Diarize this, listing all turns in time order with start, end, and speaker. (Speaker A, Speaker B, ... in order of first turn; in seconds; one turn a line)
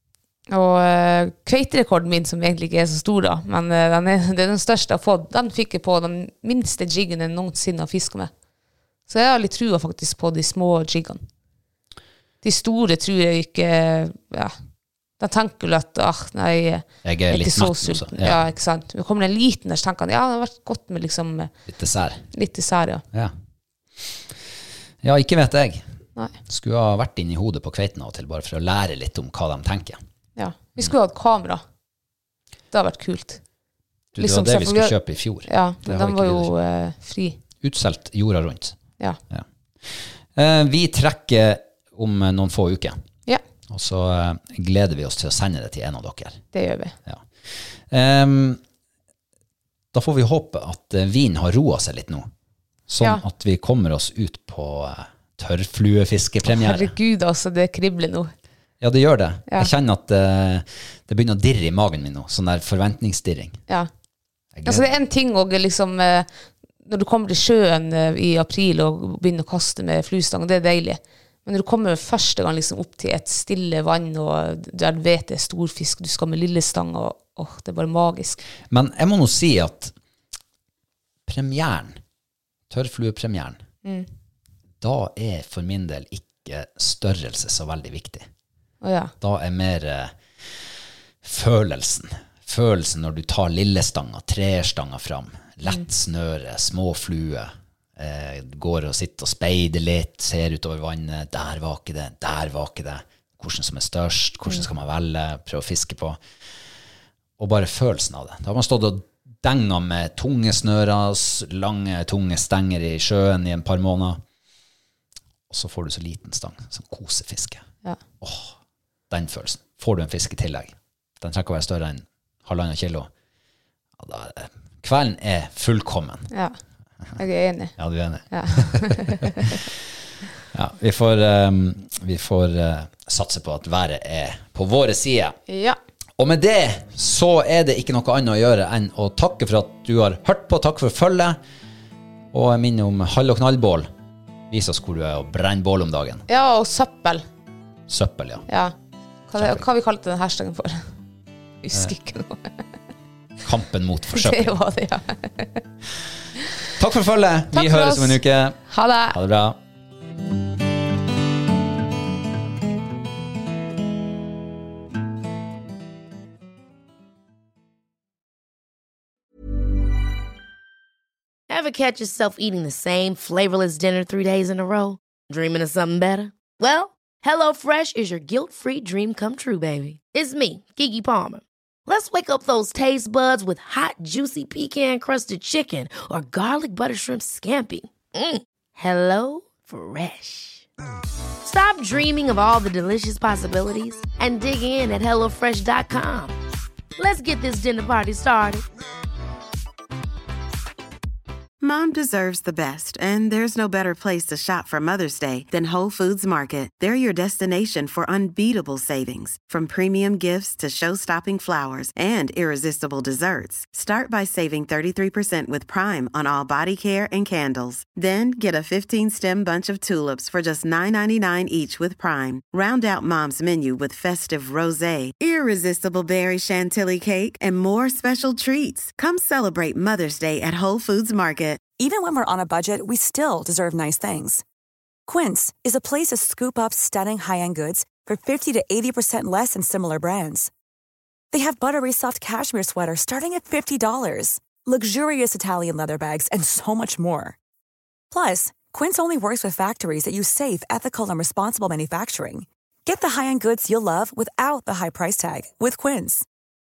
Speaker A: 0.5-8.3
Speaker A: 9.1-11.2
Speaker A: 12.4-14.5
Speaker A: 15.2-21.5
Speaker B: 17.0-18.4
Speaker B: 21.7-22.2
Speaker A: 22.3-23.0
Speaker B: 25.0-25.8
Speaker B: 26.5-30.0
Speaker A: 30.4-31.6
Speaker A: 32.7-33.4
Speaker B: 34.1-36.5
Speaker A: 34.2-34.9
Speaker A: 35.5-37.4
Speaker B: 37.6-38.8
Speaker B: 39.3-43.0
Speaker B: 43.7-46.4
Speaker A: 46.5-46.9
Speaker B: 47.0-48.6
Speaker B: 49.9-52.3
Speaker B: 52.9-56.9
Speaker A: 56.4-58.3
Speaker B: 58.8-63.6
Speaker B: 64.5-64.9
Speaker A: 64.7-66.3
Speaker A: 66.8-78.4
Speaker B: 78.7-79.9
Speaker B: 81.2-82.0
Speaker B: 82.7-83.6
Speaker B: 84.8-88.3
Speaker A: 88.8-89.1
Speaker B: 89.2-90.6
Speaker B: 91.2-106.2
Speaker B: 107.4-114.2
Speaker B: 115.5-117.6
Speaker B: 118.2-118.5
Speaker B: 119.1-123.1
Speaker B: 124.0-126.3
Speaker A: 126.3-126.5
Speaker A: 127.2-127.7
Speaker B: 127.8-129.8
Speaker A: 128.3-129.5
Speaker B: 130.5-135.4
Speaker A: 135.5-135.8
Speaker B: 136.2-141.4
Speaker B: 142.3-143.9
Speaker B: 144.5-146.2
Speaker A: 146.3-147.2
Speaker B: 147.9-148.4
Speaker A: 148.5-148.7
Speaker A: 149.3-150.8
Speaker B: 149.4-149.7
Speaker A: 151.6-152.6
Speaker B: 153.4-154.5
Speaker A: 154.1-155.6
Speaker B: 156.7-159.6
Speaker A: 157.5-159.2
Speaker C: 171.5-190.6
Speaker C: 191.4-196.4
Speaker C: 197.0-198.6
Speaker D: 201.6-231.6
Speaker E: 231.8-234.4
Speaker E: 235.1-240.5
Speaker E: 241.3-247.3
Speaker E: 248.1-256.2